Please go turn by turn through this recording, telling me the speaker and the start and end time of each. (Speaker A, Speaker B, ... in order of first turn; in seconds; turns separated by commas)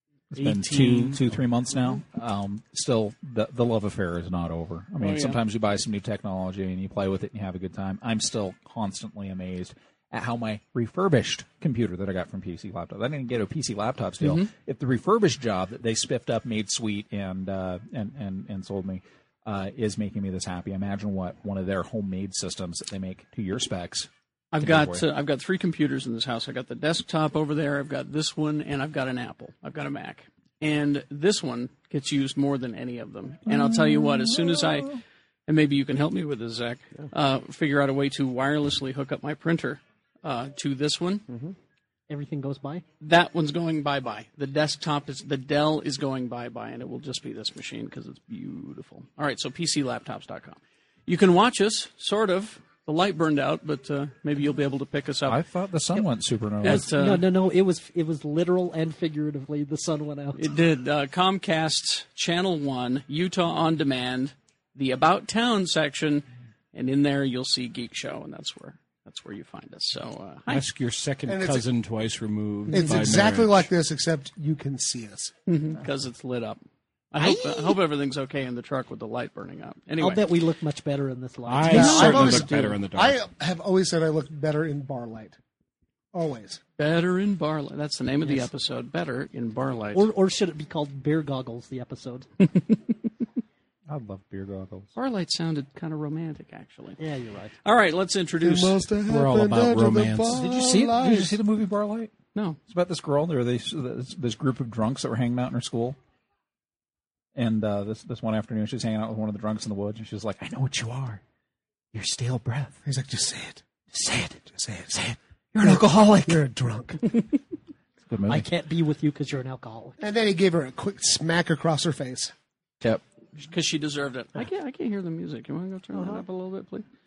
Speaker A: 0.3-25.1, Speaker B: 0.4-1.3, Speaker C: 5.0-5.4, Speaker C: 14.2-14.5, Speaker C: 24.5-34.9, Speaker A: 33.5-35.0, Speaker C: 35.5-41.2, Speaker D: 42.1-42.8, Speaker C: 43.0-55.4, Speaker A: 55.2-56.9, Speaker C: 56.6-57.3, Speaker D: 56.6-60.4, Speaker C: 60.4-70.6, Speaker B: 70.5-73.7, Speaker E: 71.3-71.7, Speaker E: 72.7-75.3, Speaker C: 75.5-76.6, Speaker C: 77.1-80.3, Speaker D: 80.0-82.4, Speaker B: 81.4-83.2, Speaker C: 81.7-82.7, Speaker E: 81.7-85.4, Speaker E: 86.1-86.6, Speaker C: 86.8-90.1, Speaker D: 89.9-92.5, Speaker A: 93.9-94.9, Speaker C: 94.9-97.0, Speaker D: 97.0-97.5, Speaker C: 97.6-98.8, Speaker E: 98.4-101.4, Speaker B: 99.0-100.4, Speaker A: 100.3-102.1, Speaker A: 102.7-106.0, Speaker A: 107.3-111.2, Speaker A: 111.9-112.8, Speaker E: 112.8-113.6, Speaker A: 113.9-116.4, Speaker E: 114.6-114.9, Speaker E: 115.6-117.2, Speaker A: 118.1-118.5, Speaker D: 118.3-120.0, Speaker E: 120.0-122.3, Speaker C: 123.3-126.8